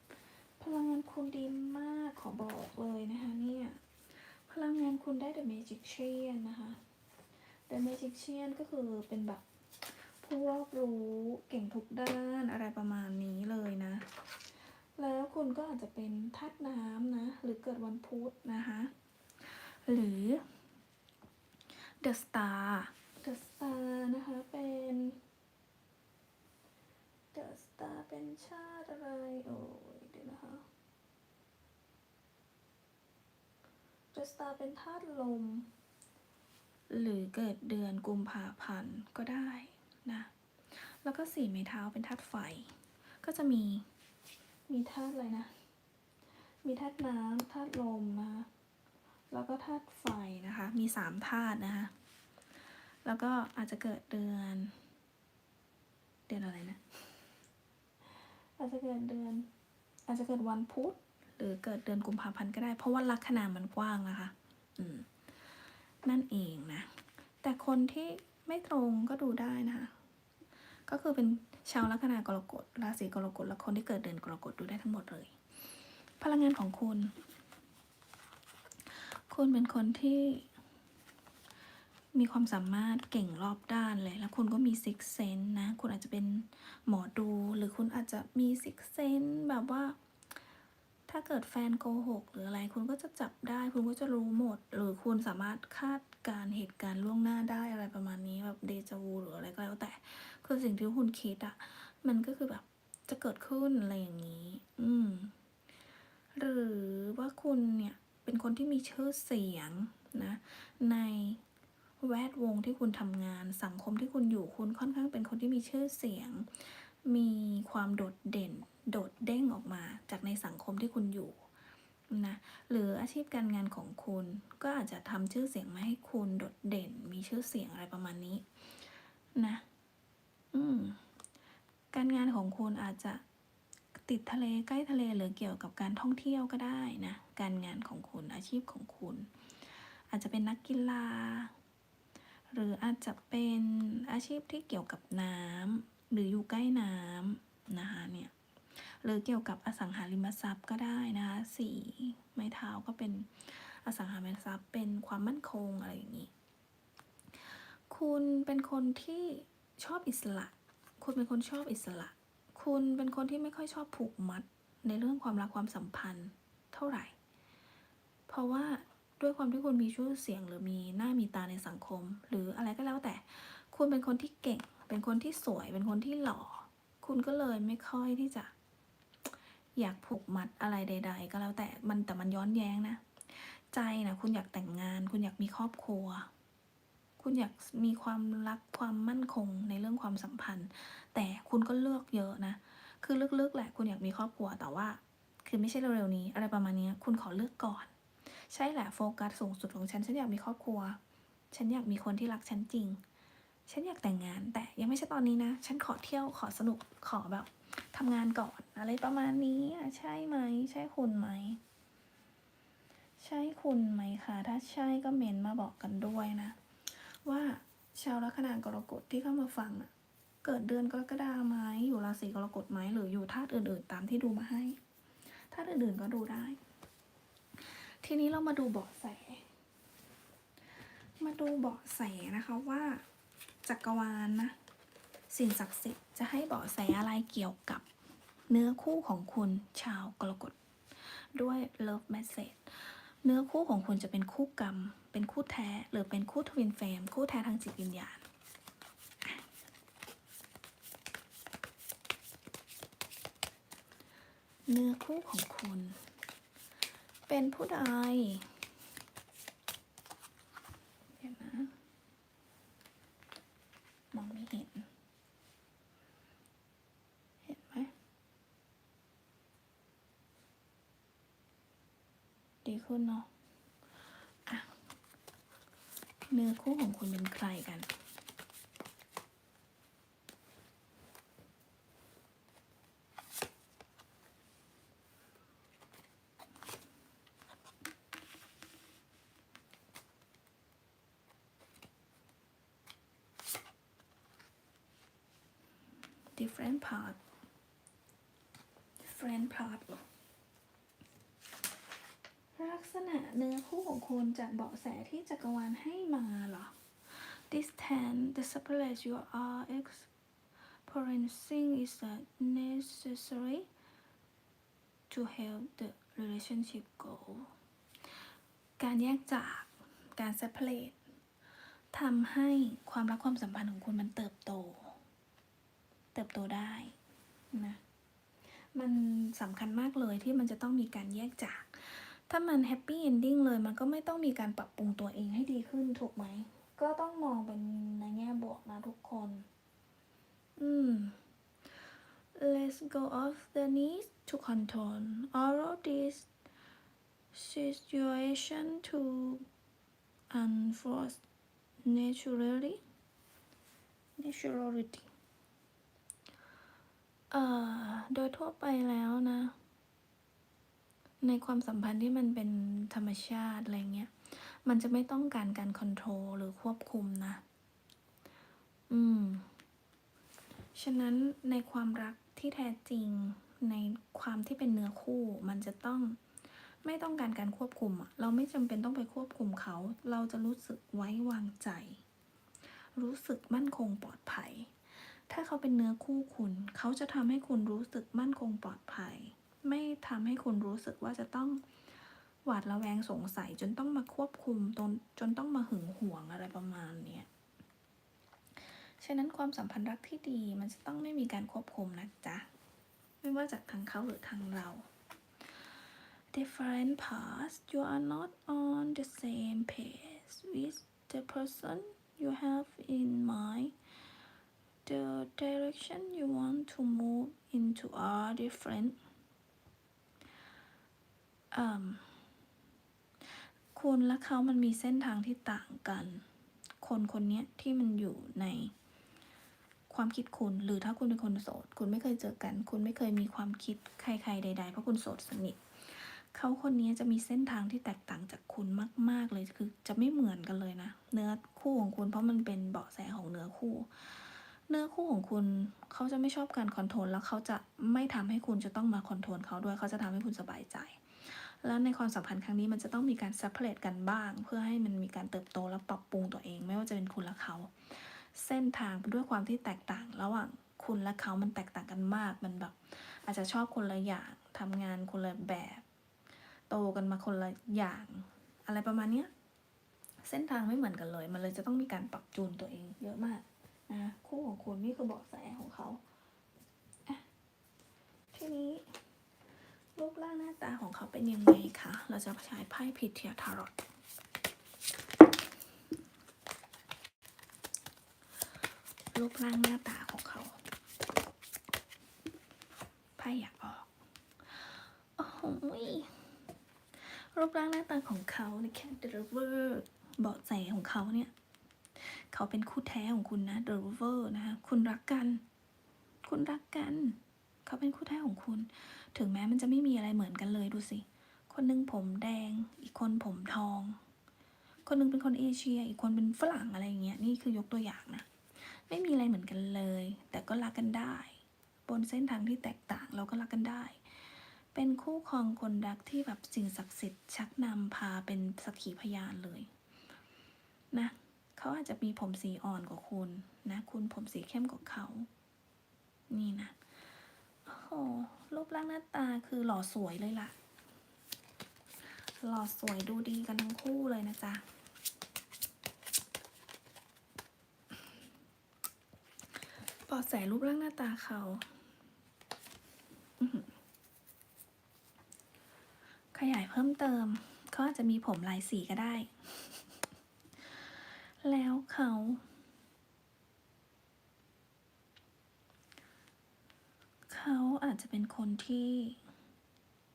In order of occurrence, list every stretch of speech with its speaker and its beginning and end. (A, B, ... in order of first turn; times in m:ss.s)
0:00.6-0:06.8 A
0:07.7-0:09.4 A
0:10.0-0:14.1 A
0:15.0-0:18.9 A
0:19.4-0:20.4 A
0:22.0-0:25.2 A
0:27.3-0:30.6 A
0:34.1-0:35.7 A
0:36.9-0:43.8 A
0:44.7-0:45.5 A
0:46.6-0:48.5 A
0:49.3-0:51.9 A
0:53.0-0:54.7 A
0:56.3-0:56.8 A
0:58.6-0:59.5 A
1:00.1-1:05.1 A
1:06.0-1:06.9 A
1:07.4-1:09.9 A
1:10.9-1:15.3 A
1:16.2-1:17.1 A
1:19.0-1:20.5 A
1:22.1-1:30.0 A
1:31.1-1:45.3 A
1:46.3-1:51.4 A
1:52.0-2:01.4 A
2:02.1-2:08.4 A
2:09.4-2:09.6 A
2:10.5-2:11.0 A
2:11.9-2:13.2 A
2:14.0-2:19.3 A
2:20.1-2:21.5 A
2:22.5-2:36.3 A
2:37.9-2:47.1 A
2:48.3-2:58.5 A
2:59.8-3:06.3 A
3:07.2-3:21.0 A
3:21.5-3:23.0 A
3:23.7-3:31.6 A
3:33.2-3:39.9 A
3:40.4-3:44.8 A
3:45.5-3:46.6 A
3:47.6-3:49.4 A
3:51.2-3:53.0 A
3:53.6-3:54.6 A
3:55.3-3:57.8 A
3:58.5-4:00.6 A
4:01.1-4:08.2 A
4:14.7-4:16.0 A
4:17.3-4:18.6 A
4:21.2-4:21.7 A
4:24.1-4:24.9 A
4:27.4-4:27.9 A
4:32.6-4:33.3 A
4:34.4-4:34.7 A
4:36.3-4:37.9 A
4:56.3-4:57.2 A
4:59.0-5:00.0 A
5:02.6-5:10.1 A
5:10.8-5:13.7 A
5:15.1-5:17.5 A
5:18.8-5:21.0 A
5:21.9-5:25.0 A
5:26.1-5:27.0 A
5:27.5-5:27.8 A
5:28.7-5:39.4 A
5:40.6-5:41.2 A
5:42.3-5:46.3 A
5:47.3-5:49.5 A
5:50.3-5:51.2 A
5:51.8-5:52.8 A
5:54.2-5:55.1 A
5:57.3-5:59.5 A
6:01.2-6:07.4 A
6:08.9-6:09.5 A
6:10.7-6:16.2 A
6:16.8-6:22.0 A
6:22.9-6:31.6 A
6:32.4-6:37.3 A
6:39.0-6:42.5 A
6:43.2-6:44.9 A
6:46.3-6:53.7 A
6:54.8-6:59.0 A
7:01.5-7:02.1 A
7:03.7-7:06.2 A
7:06.8-7:08.7 A
7:09.9-7:45.8 A
7:46.7-7:49.3 A
7:50.2-7:56.0 A
7:58.3-7:58.8 A
8:00.0-8:03.7 A
8:09.1-8:10.6 A
8:13.2-8:13.9 A
8:14.5-8:16.2 A
8:17.0-8:21.3 A
8:22.0-8:25.4 A
8:26.2-8:34.0 A
8:34.8-8:44.0 A
8:44.7-8:49.7 A
8:50.9-8:55.3 A
8:56.3-8:56.8 A
8:57.6-9:00.5 A
9:02.4-9:04.6 A
9:10.1-9:11.7 A
9:13.4-9:13.7 A
9:16.3-9:19.9 A
9:20.7-9:22.4 A
9:27.3-9:29.2 A